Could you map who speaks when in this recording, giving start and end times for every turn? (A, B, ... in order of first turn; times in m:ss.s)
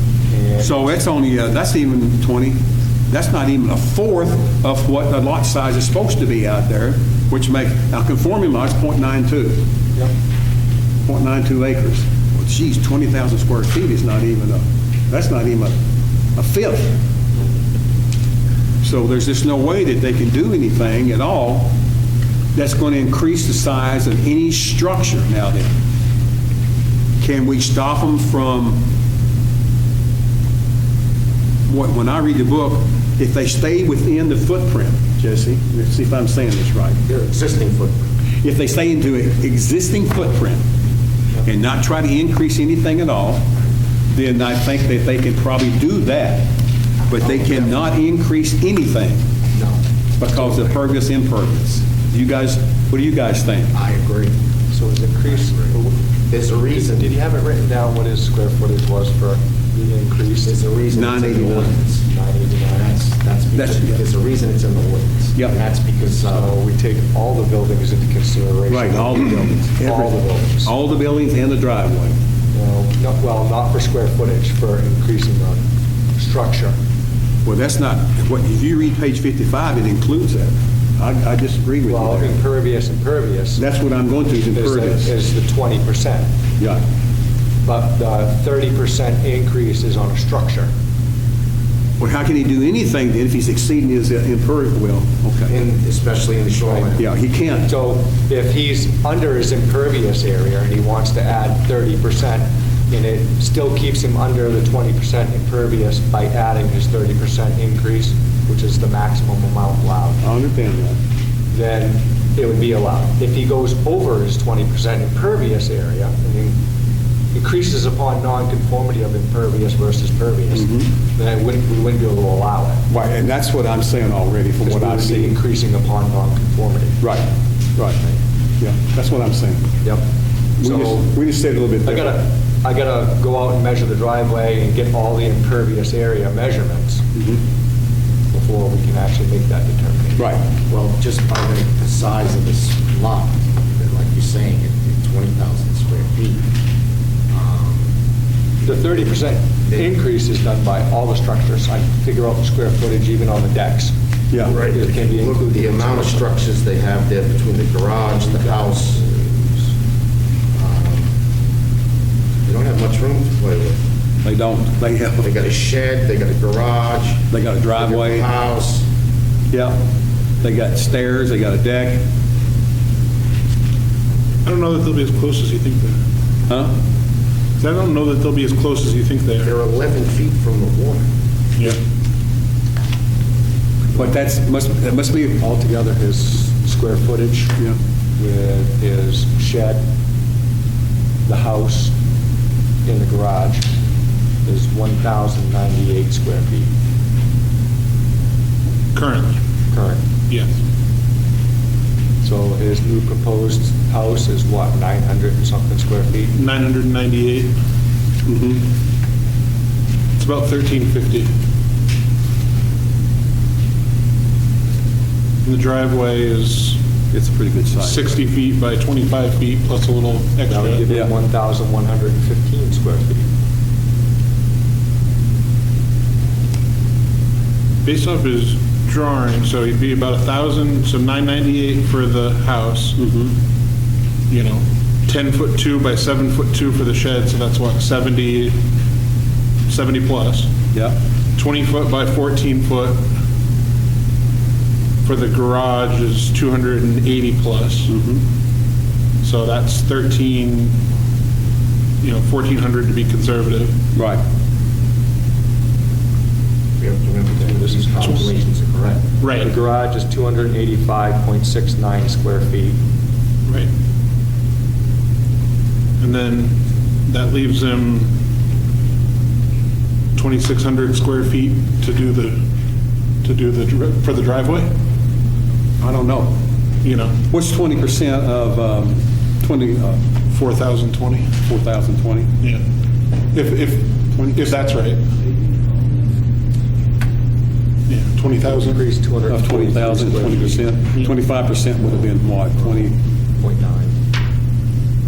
0:00.3-0:00.9 A
0:00.6-0:02.6 B
0:03.1-0:09.6 B
0:11.0-0:15.7 B
0:16.4-0:17.0 B
0:18.8-0:21.7 B
0:22.5-0:25.7 B
0:27.2-0:28.8 B
0:31.7-0:37.0 B
0:37.1-0:38.0 C
0:38.4-0:40.6 B
0:41.4-0:43.4 B
0:44.1-0:46.5 B
0:47.1-0:49.2 B
0:49.5-0:49.8 C
0:50.2-0:53.7 B
0:50.5-0:50.8 C
0:53.7-0:54.4 C
0:54.7-0:56.0 A
0:55.4-0:55.7 C
0:56.3-0:57.2 C
0:56.7-1:00.6 A
1:00.4-1:02.1 C
1:00.9-1:01.7 B
1:02.0-1:02.8 A
1:02.6-1:06.6 C
1:03.5-1:04.0 B
1:06.2-1:10.7 A
1:08.7-1:12.2 B
1:12.5-1:15.6 A
1:16.2-1:16.7 A
1:17.4-1:22.4 B
1:21.8-1:23.6 A
1:23.6-1:25.1 B
1:24.5-1:26.3 A
1:27.6-1:30.7 A
1:32.0-1:35.6 B
1:35.5-1:37.0 C
1:36.7-1:36.9 A
1:37.0-1:37.7 B
1:37.6-1:50.2 A
1:50.2-1:51.0 B
1:51.5-1:56.6 A
1:57.3-2:02.8 A
2:00.5-2:00.9 B
2:02.9-2:05.3 B
2:04.6-2:07.0 A
2:07.0-2:07.2 B
2:08.6-2:09.7 B
2:10.6-2:12.2 B
2:10.6-2:11.1 A
2:11.8-2:17.0 A
2:17.1-2:17.4 B
2:18.3-2:20.3 A
2:20.2-2:20.4 B
2:20.7-2:26.4 C
2:27.3-2:27.9 C
2:28.6-2:33.9 A
2:34.4-2:39.0 C
2:34.5-2:36.2 A
2:38.1-2:39.6 A
2:40.5-2:41.1 C
2:42.4-2:43.8 C
2:44.2-2:45.3 B
2:45.2-2:48.8 C
2:47.3-2:48.3 B
2:49.5-2:49.8 B
2:50.4-2:52.0 B
2:54.4-2:56.0 D
2:56.5-2:56.7 B
2:57.6-2:59.5 D
2:59.4-3:01.0 C
3:03.9-3:05.4 B
3:05.3-3:07.6 A
3:08.2-3:09.8 A
3:11.2-3:11.9 A
3:12.8-3:13.7 A
3:14.4-3:16.7 A
3:18.9-3:19.4 D
3:19.7-3:20.0 A
3:22.2-3:26.4 A
3:26.3-3:27.5 D
3:28.3-3:28.6 B
3:30.2-3:31.3 D
3:35.4-3:36.8 D
3:37.1-3:38.0 B
3:37.8-3:40.8 D
3:40.5-3:43.3 A
3:47.8-3:53.0 D
3:53.0-3:53.3 B
3:54.3-3:58.6 D
3:59.7-4:00.5 D
4:00.7-4:01.0 B
4:01.4-4:03.1 D
4:05.0-4:07.9 D
4:07.9-4:08.2 B
4:09.2-4:10.8 D
4:12.0-4:13.7 D
4:13.9-4:14.2 B
4:16.8-4:19.0 C
4:17.4-4:18.2 A
4:18.0-4:18.2 D
4:19.2-4:19.5 D
4:19.4-4:22.8 A
4:23.4-4:23.7 D
4:26.0-4:28.1 D
4:30.2-4:32.4 D
4:33.2-4:34.7 D
4:35.8-4:36.4 B
4:36.8-4:37.2 D
4:37.3-4:40.0 B
4:40.3-4:41.3 D
4:41.4-4:42.3 B
4:43.3-4:45.0 D
4:44.1-4:45.4 B
4:47.9-4:48.8 D
4:48.4-4:50.7 A
4:49.3-4:53.0 B
4:53.4-4:53.9 A